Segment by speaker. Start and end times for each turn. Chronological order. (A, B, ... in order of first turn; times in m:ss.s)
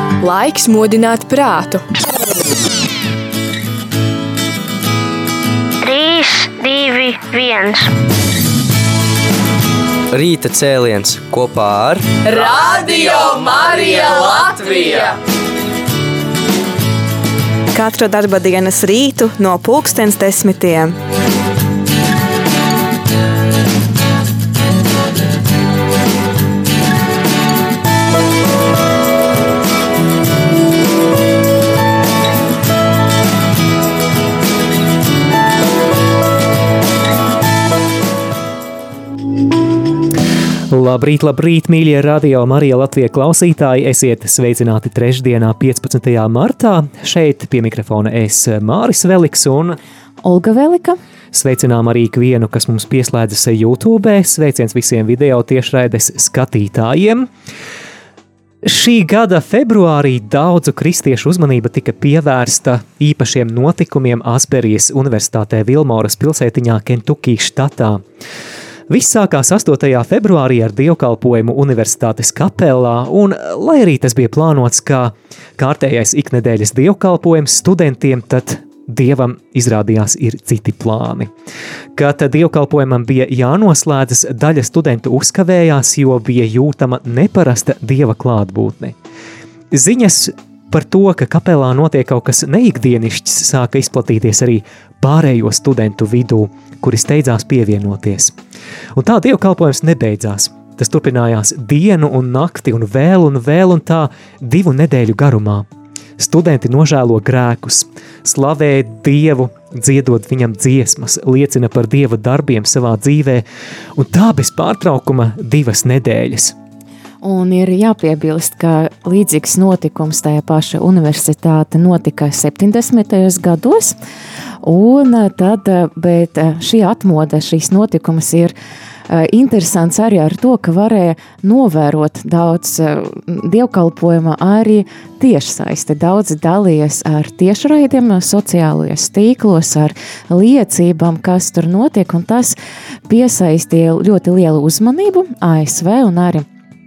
0:00.2-0:01.9 A
0:05.8-0:07.9 B
0:10.1-0:12.0 C
0:12.2-0:15.2 A
0:17.7-0:21.0 D
0:40.7-0:49.8 E
0:50.2-0:51.0 F
0:51.3-0:57.3 E
0:58.6-1:08.0 E
1:08.9-1:21.3 E
1:22.0-1:29.0 E
1:29.7-1:38.4 E
1:39.0-1:45.7 E
1:46.2-1:53.4 E
1:54.0-1:56.5 E
1:57.2-2:04.0 F
2:04.6-2:08.5 F
2:09.1-2:22.6 F
2:23.1-2:26.5 F